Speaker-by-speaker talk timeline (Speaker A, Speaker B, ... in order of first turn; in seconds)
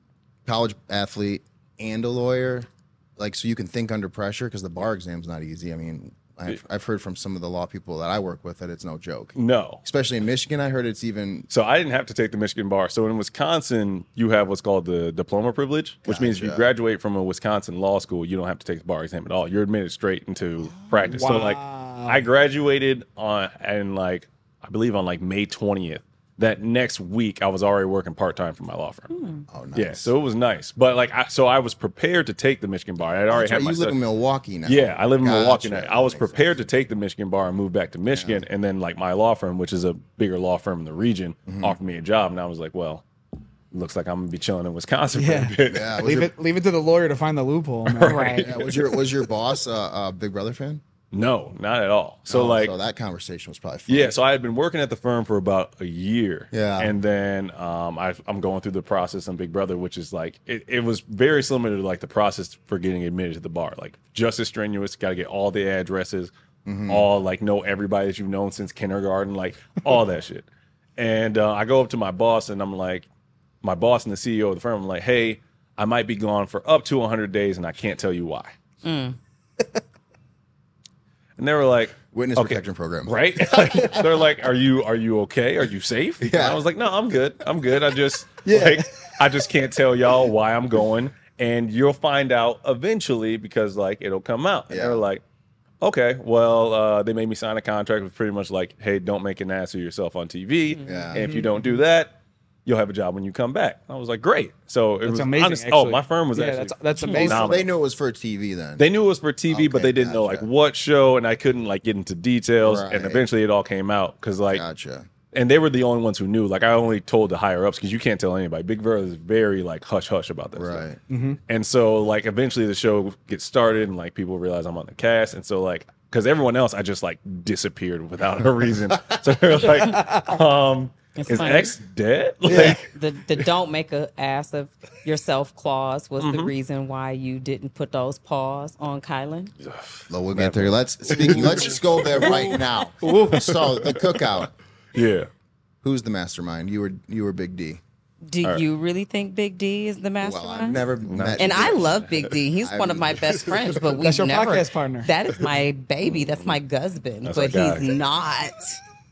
Speaker A: 0.5-11.5, 16.1-16.7, 29.5-30.1, 33.3-36.6, 38.1-38.5, 41.5-41.8, 45.7-46.3, 48.4-50.8, 52.3-54.1, 56.5-56.9, 66.7-67.1, 82.1-84.0, 86.2-86.6, 94.7-95.0, 100.8-101.2, 107.2-108.9, 109.5-110.5, 112.6-113.2, 114.5-115.1, 120.5-121.0, 140.1-144.5, 145.8-147.8, 150.2-152.1, 152.6-153.8
Speaker B: 9.4-9.8, 11.5-29.1, 29.8-34.0, 34.6-43.0, 43.7-46.0, 47.9-48.8, 51.1-52.7, 53.9-66.3, 66.9-73.1, 73.6-78.5, 81.4-95.2, 95.8-102.2, 102.7-107.7, 108.8-114.6, 115.3-120.9, 121.5-132.9, 136.2-136.5, 139.6-145.3, 151.1-152.3, 156.1-156.6, 157.2-157.9
Speaker C: 21.0-22.2, 45.1-48.4, 88.5-88.8, 101.2-101.5, 105.1-107.6, 121.1-121.4, 129.9-130.3, 132.5-132.8, 154.0-155.1
Speaker D: 29.1-29.4, 48.0-48.5, 78.8-79.2, 100.7-101.1, 131.2-131.8, 132.5-139.5, 148.2-150.8, 151.4-158.8